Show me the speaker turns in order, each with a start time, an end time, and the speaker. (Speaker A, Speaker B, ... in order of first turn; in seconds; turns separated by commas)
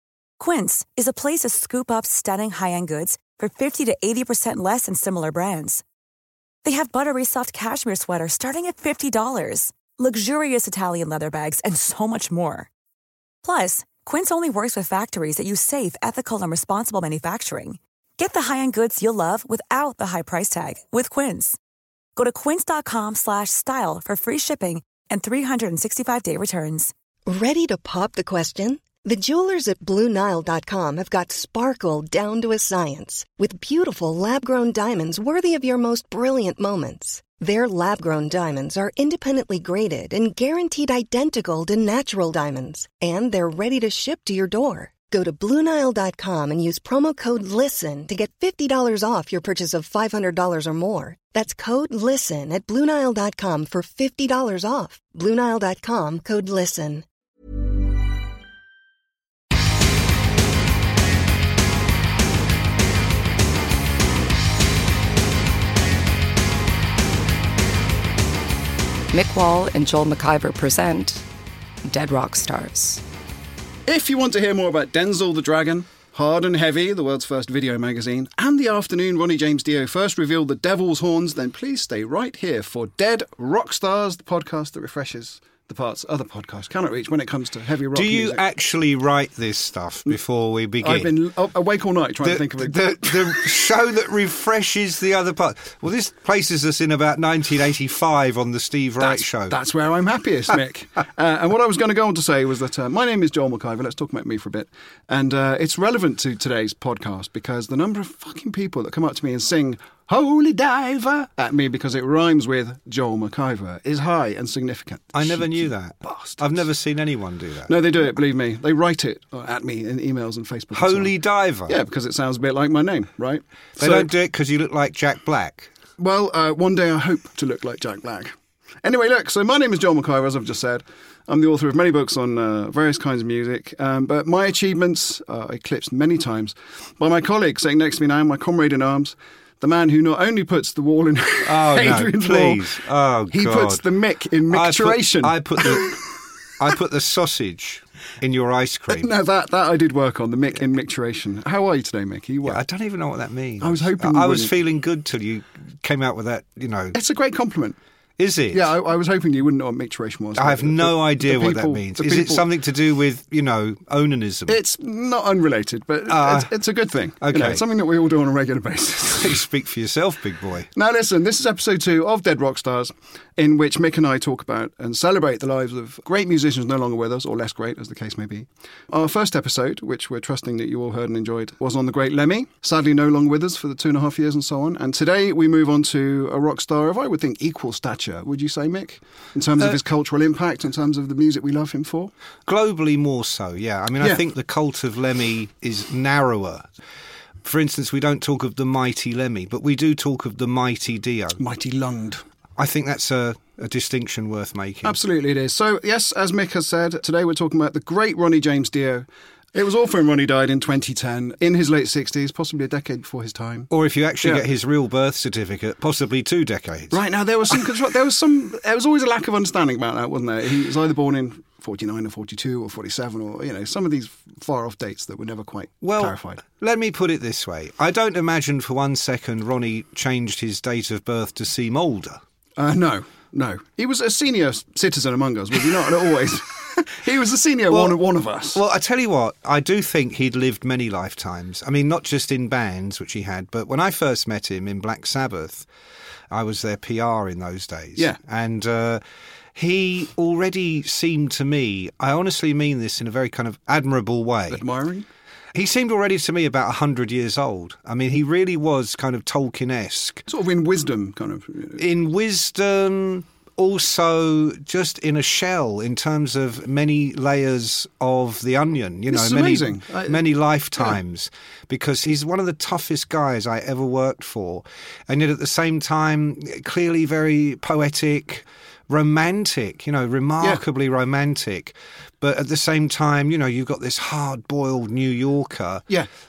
Speaker A: 0.4-5.8, Speaker A: 6.6-12.7, Speaker A: 13.4-21.6, Speaker A: 22.1-26.9, Speaker B: 27.3-57.0, Speaker C: 69.1-71.2, Speaker C: 71.8-73.0, Speaker D: 73.9-88.4, Speaker E: 87.9-91.1, Speaker D: 90.8-93.4, Speaker E: 92.2-99.5, Speaker D: 99.0-116.5, Speaker E: 115.1-117.7, Speaker D: 117.7-124.1, Speaker E: 120.7-121.8, Speaker E: 123.8-125.7, Speaker D: 126.0-142.6, Speaker E: 141.4-143.8, Speaker D: 143.3-146.0, Speaker E: 144.5-146.0, Speaker E: 146.6-149.1, Speaker D: 148.9-152.6, Speaker E: 152.4-156.9, Speaker D: 153.6-154.5, Speaker D: 156.9-157.8, Speaker E: 158.2-158.7, Speaker D: 158.5-162.5, Speaker E: 160.3-164.6, Speaker D: 164.5-169.4, Speaker E: 166.1-166.5, Speaker E: 167.2-167.6, Speaker E: 169.1-170.7, Speaker D: 170.7-192.1, Speaker E: 192.5-196.7, Speaker E: 197.4-201.4, Speaker D: 201.4-202.2, Speaker E: 202.6-205.0, Speaker D: 204.8-213.7, Speaker E: 213.7-217.0, Speaker D: 216.9-226.4, Speaker E: 225.8-232.2, Speaker D: 232.6-238.6, Speaker E: 237.7-238.0, Speaker E: 238.5-245.7, Speaker E: 246.3-249.0, Speaker E: 249.5-254.6, Speaker D: 254.5-255.1, Speaker E: 255.5-260.2, Speaker D: 260.3-261.8, Speaker E: 261.8-285.8, Speaker D: 269.1-270.3